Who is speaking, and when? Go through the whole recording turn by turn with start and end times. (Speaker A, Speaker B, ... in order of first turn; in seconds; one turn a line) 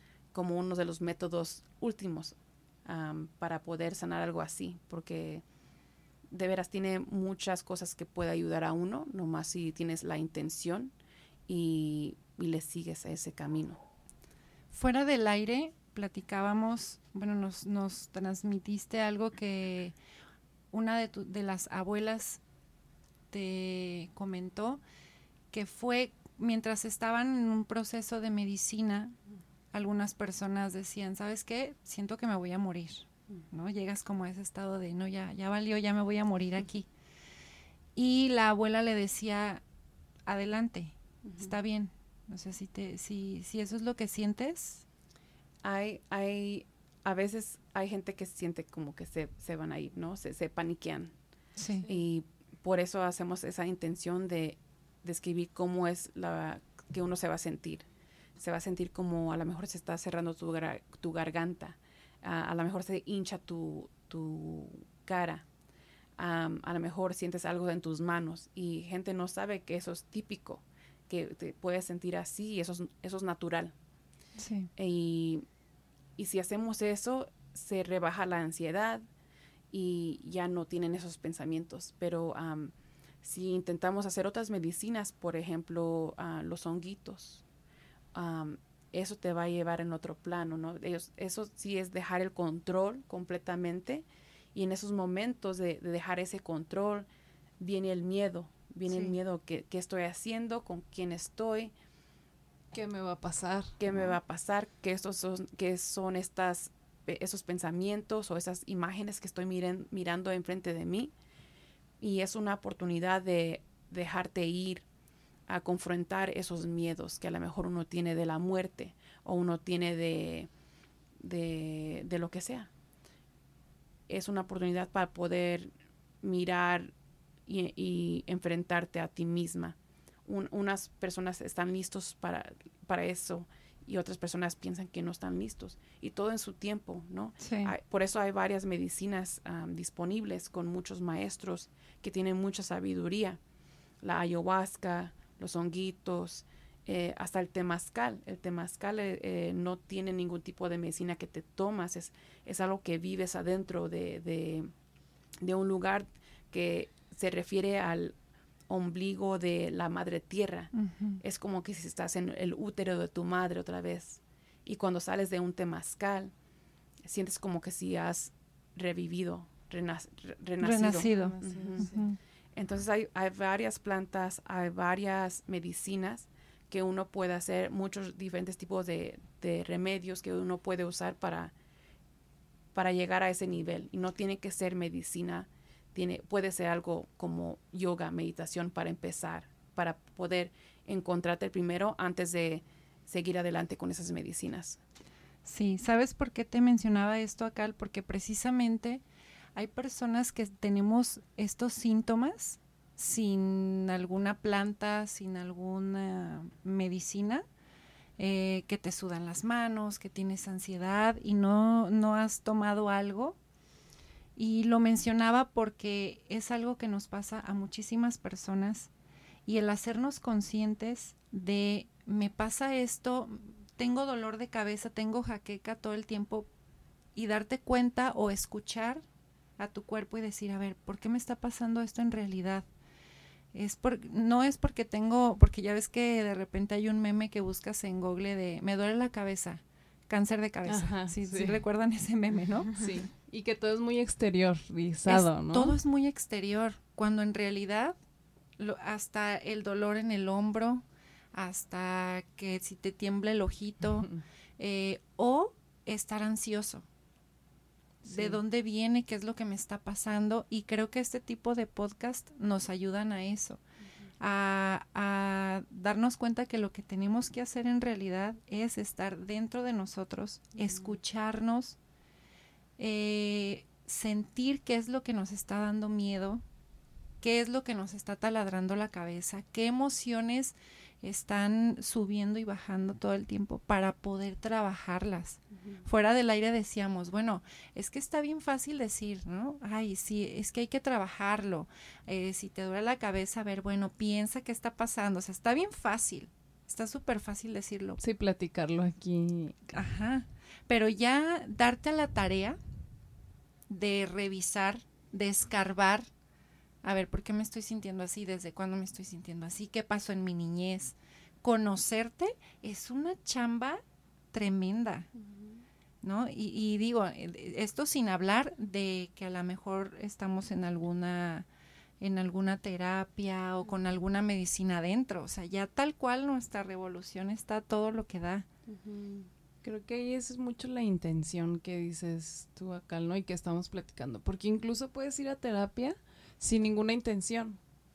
Speaker A: 0.3-5.4
Speaker A: 6.3-10.9
Speaker A: 11.5-13.8
Speaker B: 14.7-19.9
Speaker B: 20.7-22.4
Speaker B: 23.3-24.8
Speaker B: 25.5-29.1
Speaker B: 29.7-36.9
Speaker B: 38.0-39.6
Speaker B: 40.3-44.9
Speaker A: 41.2-41.5
Speaker A: 45.6-51.1
Speaker B: 51.6-51.9
Speaker A: 51.9-57.9
Speaker A: 58.4-65.5
Speaker A: 66.2-73.7
Speaker B: 74.4-74.7
Speaker A: 74.8-75.5
Speaker A: 76.2-79.0
Speaker A: 79.7-87.4
Speaker A: 88.1-97.1
Speaker A: 97.6-101.7
Speaker B: 98.9-99.1
Speaker C: 102.7-104.2
Speaker A: 103.8-111.1
Speaker A: 112.0-114.8
Speaker A: 115.5-120.5
Speaker A: 121.2-122.7
Speaker A: 124.1-125.7
Speaker A: 126.2-126.9
Speaker A: 127.5-143.4
Speaker B: 137.4-137.7
Speaker A: 144.0-154.7
Speaker A: 155.4-158.2
Speaker A: 158.7-166.3
Speaker B: 160.7-161.2
Speaker A: 167.0-171.9
Speaker B: 170.6-172.2
Speaker C: 171.1-172.0
Speaker A: 172.6-181.5
Speaker A: 182.8-194.8
Speaker B: 195.4-199.0
Speaker B: 199.6-207.4
Speaker B: 208.2-213.4
Speaker B: 214.4-218.9
Speaker B: 219.5-226.5
Speaker B: 227.2-229.0
Speaker B: 229.6-232.7
Speaker B: 233.5-242.7
Speaker C: 240.7-241.6
Speaker C: 242.8-245.8
Speaker B: 245.1-248.0
Speaker B: 248.6-256.8
Speaker C: 258.1-258.4
Speaker B: 258.1-263.6
Speaker B: 264.2-271.8
Speaker A: 270.6-271.0
Speaker B: 272.8-276.4
Speaker B: 277.2-298.0
Speaker C: 298.0-299.6
Speaker B: 299.7-302.6
Speaker B: 303.7-306.1
Speaker B: 306.8-313.8
Speaker B: 314.3-315.1
Speaker B: 316.0-321.5
Speaker B: 322.0-328.5
Speaker A: 328.7-329.3
Speaker C: 329.6-337.6